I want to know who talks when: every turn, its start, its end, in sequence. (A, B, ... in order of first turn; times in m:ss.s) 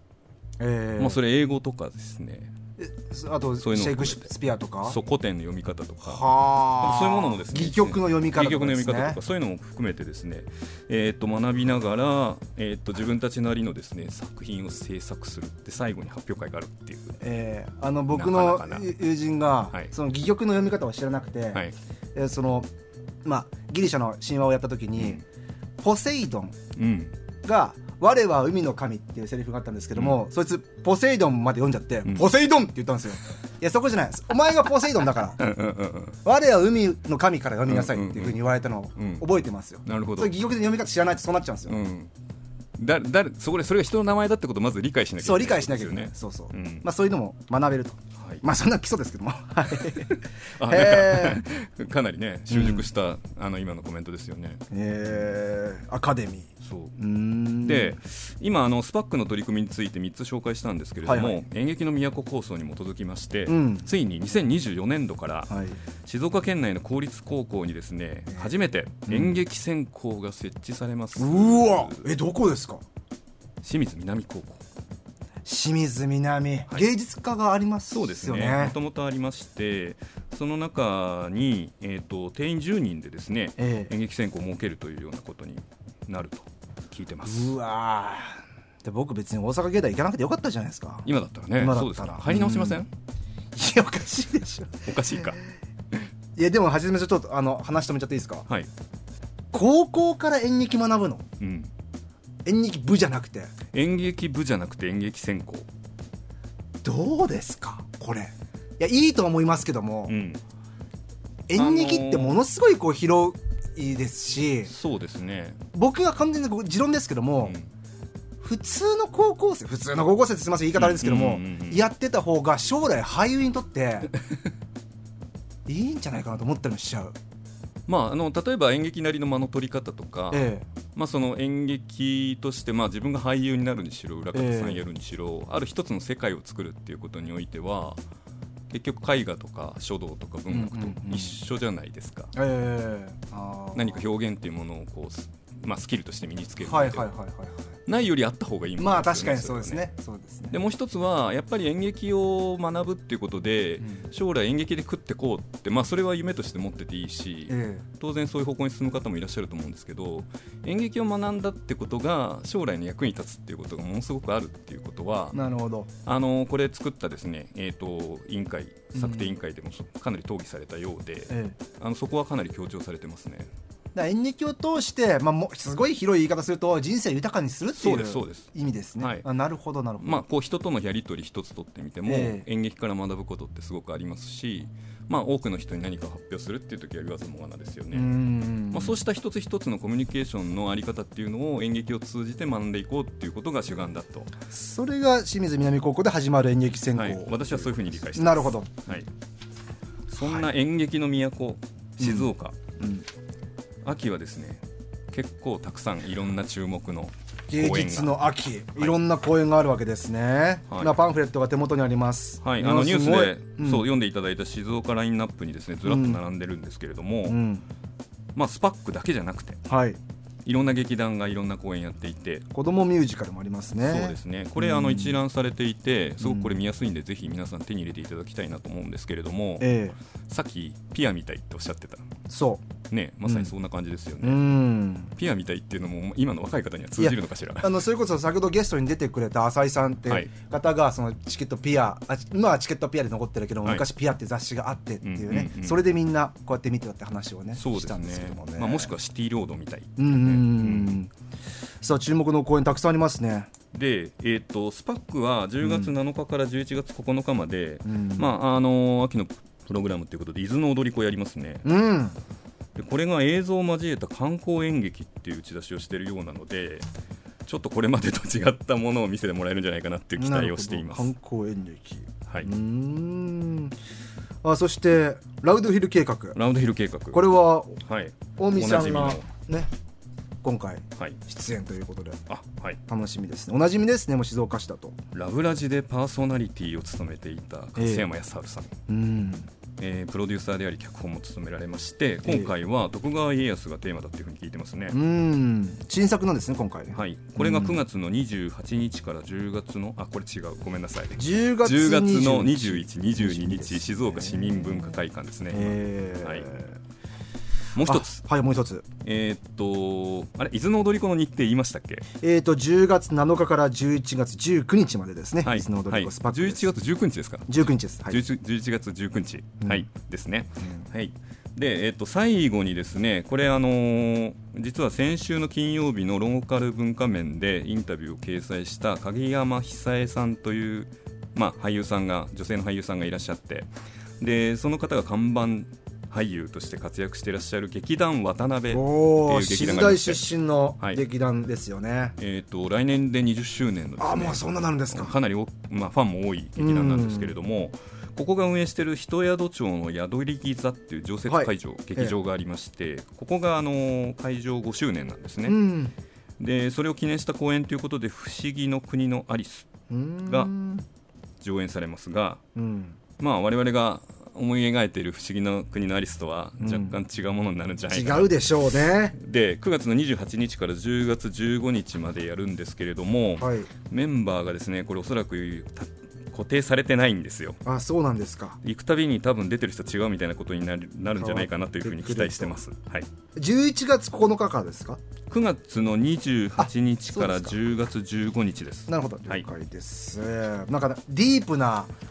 0:00.6-0:01.2 A
0:01.0-0:02.5 B
0:02.8-0:05.0 A
0:03.6-0:17.2 B
0:06.0-0:09.2 A
0:17.2-0:21.6 A
0:18.1-0:18.9 B
0:22.2-0:22.7 A
0:23.2-0:25.2 A
0:25.0-0:25.2 B
0:25.8-0:26.6 A
0:26.8-0:27.2 B
0:27.4-0:35.4 A
0:35.4-0:36.2 B
0:36.2-0:41.8 A
0:37.7-0:38.4 B
0:39.0-0:39.3 B
0:39.8-0:40.3 B
0:41.7-0:42.1 B
0:42.8-0:46.9 B
0:45.2-0:51.5 A
0:48.2-0:48.4 B
0:50.6-0:54.6 B
0:52.5-0:52.9 A
0:54.7-0:58.0 A
0:56.6-0:56.9 B
0:57.6-1:05.5 B
1:01.1-1:01.4 A
1:03.5-1:03.9 A
1:05.5-1:05.8 A
1:06.0-1:12.1 B
1:09.1-1:09.4 A
1:11.2-1:12.8 A
1:13.6-1:14.6 B
1:15.4-1:18.8 A
1:17.9-1:27.6 B
1:23.6-1:23.9 A
1:27.2-1:32.8 A
1:31.0-1:32.9 B
1:33.5-1:34.9 A
1:34.8-1:35.4 B
1:36.4-1:38.5 A
1:39.5-1:41.2 A
1:41.4-1:41.7 B
1:42.4-1:43.5 A
1:43.7-1:45.7 B
1:46.8-1:50.1 A
1:50.1-1:50.4 B
1:51.5-1:54.7 A
1:51.6-1:52.4 B
1:54.7-1:55.6 B
1:55.7-1:57.6 A
1:57.4-1:57.7 B
1:58.4-2:04.1 A
2:00.8-2:01.8 B
2:05.7-2:07.2 A
2:07.9-2:18.0 B
2:10.3-2:10.7 A
2:14.3-2:14.8 A
2:18.7-2:22.3 B
2:20.5-2:21.4 A
2:22.3-2:24.0 A
2:23.7-2:27.1 B
2:26.6-2:27.7 A
2:27.9-2:29.9 B
2:28.8-2:30.6 A
2:30.5-2:45.4 B
2:33.8-2:34.0 A
2:37.5-2:37.8 A
2:45.3-2:45.9 A
2:46.0-2:53.5 B
2:48.9-2:49.3 A
2:51.3-2:51.6 A
2:54.0-3:00.2 A
2:57.8-2:59.2 B
3:00.0-3:08.1 B
3:02.1-3:02.4 A
3:07.9-3:09.0 A
3:08.7-3:14.3 B
3:14.5-3:18.7 A
3:17.0-3:19.1 B
3:20.1-3:22.6 B
3:20.2-3:20.5 A
3:22.0-3:23.1 A
3:23.8-3:28.2 B
3:27.5-3:33.9 A
3:30.7-3:31.0 B
3:32.4-3:37.4 B
3:35.8-3:36.2 A
3:37.3-3:37.6 A
3:38.4-3:39.6 B
3:39.7-3:40.0 A
3:40.4-3:42.5 B
3:42.5-3:45.2 A
3:43.8-3:52.1 B
3:46.2-3:46.6 A
3:49.6-3:50.0 A
3:52.3-3:52.6 A
3:52.9-3:54.4 B
3:53.3-3:53.5 A
3:54.2-3:55.1 A
3:55.2-3:57.7 B
3:57.0-4:08.9 A
4:05.0-4:05.9 B
4:07.6-4:11.0 B
4:10.0-4:11.1 A
4:11.8-4:13.5 A
4:13.7-4:21.7 B
4:15.6-4:15.9 A
4:17.8-4:18.3 A
4:21.6-4:22.2 A
4:22.8-4:26.9 B
4:27.4-4:31.1 B
4:30.2-4:33.7 A
4:34.4-4:36.4 A
4:36.4-4:37.2 B
4:37.1-4:37.8 A
4:37.8-4:39.3 B
4:38.4-4:39.7 A
4:40.4-4:42.2 A
4:42.3-4:42.8 B
4:42.9-4:45.0 A
4:45.1-4:48.7 B
4:47.8-4:48.1 A
4:48.9-4:49.5 A
4:49.8-4:55.0 B
4:52.2-4:52.5 A
4:54.9-4:57.8 A
4:56.9-5:06.5 B
5:01.2-5:05.0 A
5:05.5-5:06.8 A
5:07.7-5:08.2 B
5:07.8-5:08.9 A
5:09.0-5:12.1 B
5:12.2-5:16.7 A
5:15.4-5:33.7 B
5:17.5-5:18.2 A
5:20.6-5:20.9 A
5:34.2-5:40.3 B
5:38.7-5:42.2 A
5:42.2-5:55.6 B
5:44.0-5:45.2 A
5:46.6-5:47.3 A
5:51.3-5:52.2 A
5:55.4-5:55.9 A
5:56.4-5:59.7 B
5:59.9-6:00.8 A
6:00.2-6:00.5 B
6:01.4-6:02.4 B
6:02.6-6:03.0 A
6:03.2-6:08.3 B
6:06.6-6:07.0 A
6:07.9-6:09.2 A
6:09.2-6:17.6 B
6:13.4-6:13.7 A
6:17.6-6:18.6 A
6:18.6-6:23.1 B
6:21.2-6:22.6 A
6:23.4-6:25.0 A
6:25.3-6:29.5 B
6:26.6-6:27.6 A
6:28.9-6:31.9 A